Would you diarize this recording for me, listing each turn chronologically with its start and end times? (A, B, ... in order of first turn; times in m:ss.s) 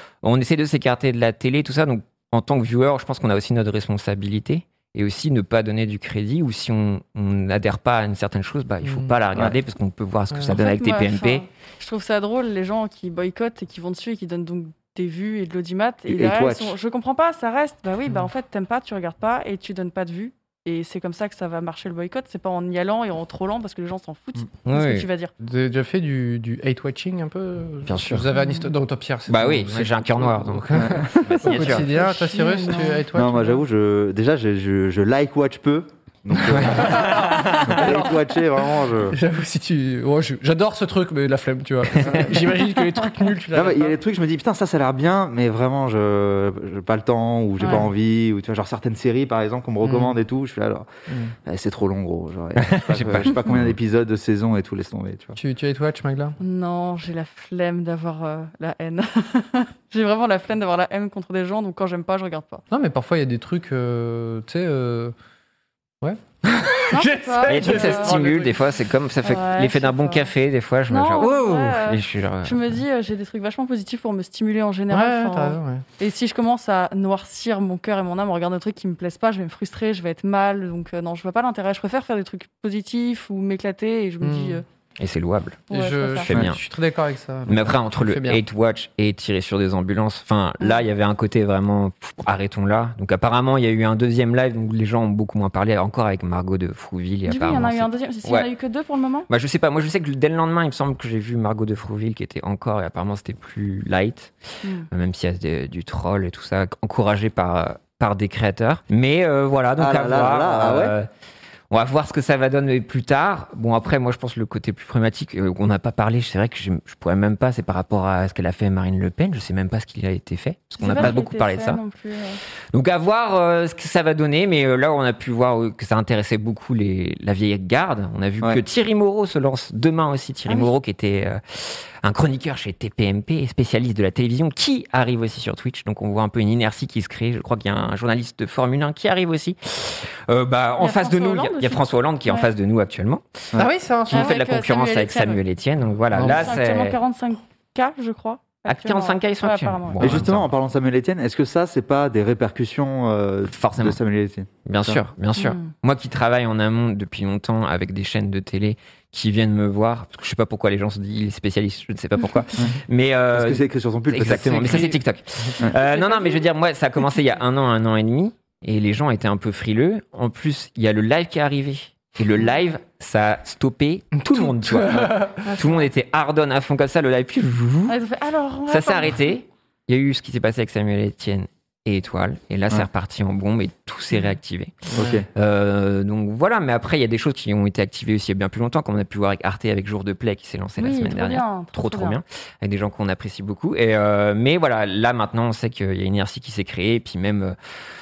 0:00.2-0:11.5 A
0:08.8-0:09.1 B
0:10.3-0:10.6 B
0:10.6-0:25.3 C
0:16.1-0:16.8 D
0:24.7-0:25.1 A
0:25.4-0:33.6 B
0:27.9-0:28.3 A
0:28.3-0:28.7 C
0:29.3-0:32.2 A
0:30.7-0:31.2 D
0:31.7-0:33.0 C
0:33.1-0:39.2 D
0:36.4-0:38.0 A
0:36.8-0:38.1 B
0:39.1-0:44.0 B
0:42.1-0:42.3 D
0:43.5-0:50.9 D
0:47.6-0:47.9 B
0:49.8-0:50.2 B
0:51.1-0:51.4 B
0:51.4-0:55.4 D
0:52.6-0:53.7 A
0:55.4-0:56.4 B
0:56.4-1:02.6 C
1:02.7-1:05.2 B
1:06.0-1:08.6 B
1:06.9-1:08.2 C
1:07.5-1:12.8 A
1:09.2-1:10.3 C
1:10.9-1:24.6 C
1:14.9-1:15.8 B
1:24.2-1:24.6 B
1:25.0-1:25.7 A
1:25.7-1:26.3 C
1:25.7-1:28.4 B
1:26.3-1:26.6 A
1:27.5-1:38.5 A
1:37.3-1:39.3 C
1:39.3-1:44.3 A
1:44.9-1:51.1 A
1:49.8-1:51.0 D
1:51.7-2:01.8 A
2:00.8-2:02.4 C
2:02.7-2:23.5 A
2:20.8-2:22.5 C
2:23.6-2:24.3 B
2:24.1-2:27.0 A
2:24.1-2:25.4 C
2:26.1-2:26.5 B
2:26.3-2:30.2 C
2:28.7-2:30.5 A
2:30.0-2:35.0 D
2:33.5-2:34.0 A
2:34.6-2:58.0 A
2:35.4-2:35.7 C
2:43.3-2:45.0 D
2:44.7-2:45.0 B
2:45.7-2:46.4 C
2:54.3-2:55.4 B
2:55.4-2:55.9 C
2:57.9-2:59.3 C
2:58.7-3:17.6 A
3:04.9-3:05.3 D
3:10.8-3:12.2 C